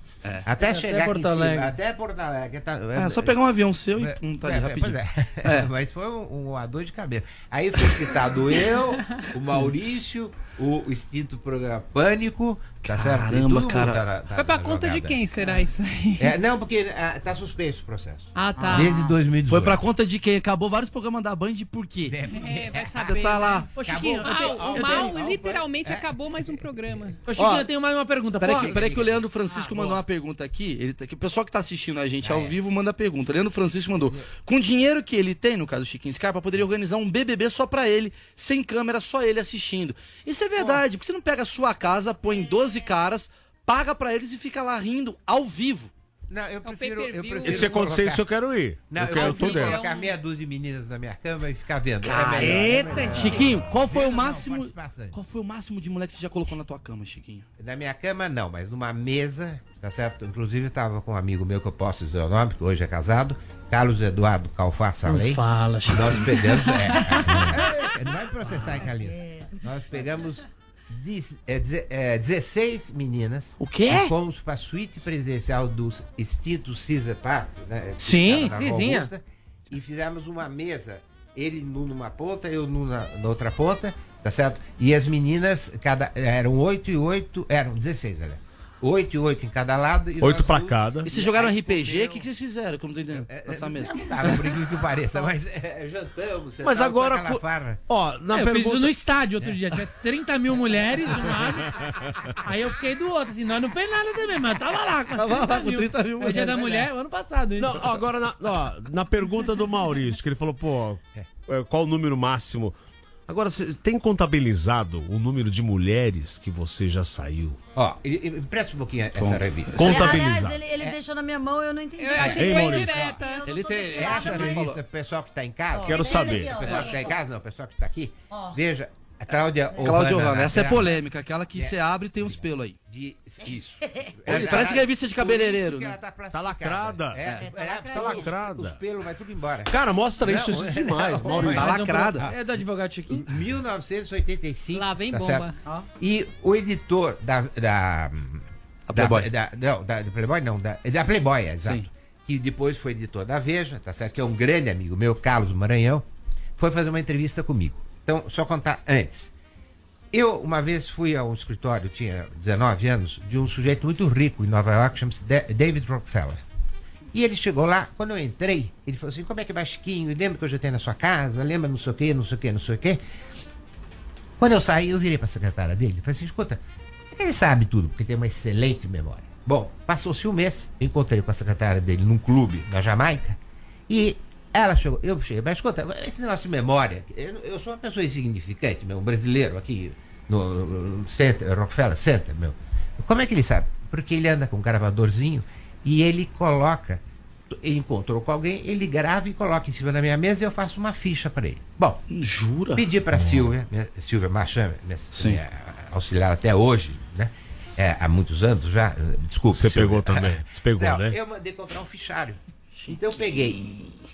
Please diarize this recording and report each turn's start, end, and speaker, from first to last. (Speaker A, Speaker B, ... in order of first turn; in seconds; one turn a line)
Speaker A: 0.5-3.4
Speaker B: 0.6-1.7
Speaker C: 2.9-5.7
Speaker A: 3.9-15.2
Speaker C: 12.8-14.0
Speaker D: 14.3-16.4
Speaker A: 16.2-19.8
Speaker D: 18.4-19.2
Speaker C: 19.5-22.2
Speaker A: 22.1-26.6
Speaker D: 22.3-27.2
Speaker C: 23.0-23.7
Speaker B: 23.8-25.2
Speaker B: 27.3-28.9
Speaker C: 27.4-27.7
Speaker C: 28.4-45.9
Speaker A: 28.5-29.2
Speaker B: 29.5-30.0
Speaker A: 32.2-32.5
Speaker A: 40.6-40.8
Speaker A: 46.3-48.3
Speaker D: 46.6-47.8
Speaker E: 47.4-49.8
Speaker A: 48.9-55.2
Speaker D: 49.1-50.1
Speaker C: 52.0-57.5
Speaker B: 52.3-53.5
Speaker D: 53.1-53.5
Speaker A: 57.6-92.3
Speaker B: 65.0-67.1
Speaker F: 68.8-69.5
Speaker C: 73.6-74.1
Speaker B: 78.0-79.1
Speaker E: 90.2-91.1
Speaker C: 91.0-94.5
Speaker A: 93.2-97.8
Speaker E: 96.6-99.1
Speaker B: 98.3-107.9
Speaker E: 101.7-102.3
Speaker C: 105.2-106.9
Speaker E: 107.6-112.8
Speaker E: 113.3-117.6
Speaker A: 117.8-121.0
Speaker E: 119.2-120.6
Speaker F: 119.8-124.7
Speaker D: 122.0-123.4
Speaker A: 122.2-122.6
Speaker E: 122.2-123.1
Speaker C: 123.5-124.8
Speaker A: 123.9-131.0
Speaker F: 125.7-127.2
Speaker E: 125.8-126.8
Speaker F: 128.3-128.6
Speaker C: 129.8-132.8
Speaker A: 131.6-142.5
Speaker F: 133.9-134.1
Speaker C: 134.3-136.0
Speaker E: 136.3-138.8
Speaker F: 137.4-138.4
Speaker E: 139.7-141.8
Speaker B: 141.4-143.3
Speaker C: 141.4-142.3
Speaker A: 143.1-159.3
Speaker D: 144.7-145.6
Speaker C: 148.9-149.3
Speaker C: 151.6-151.9
Speaker A: 160.1-166.4
Speaker A: 167.1-173.0
Speaker A: 174.4-176.6
Speaker A: 177.1-183.4
Speaker A: 183.9-202.0
Speaker C: 202.1-202.8
Speaker A: 202.8-213.8
Speaker E: 203.2-203.5
Speaker C: 205.1-205.4
Speaker E: 209.5-211.2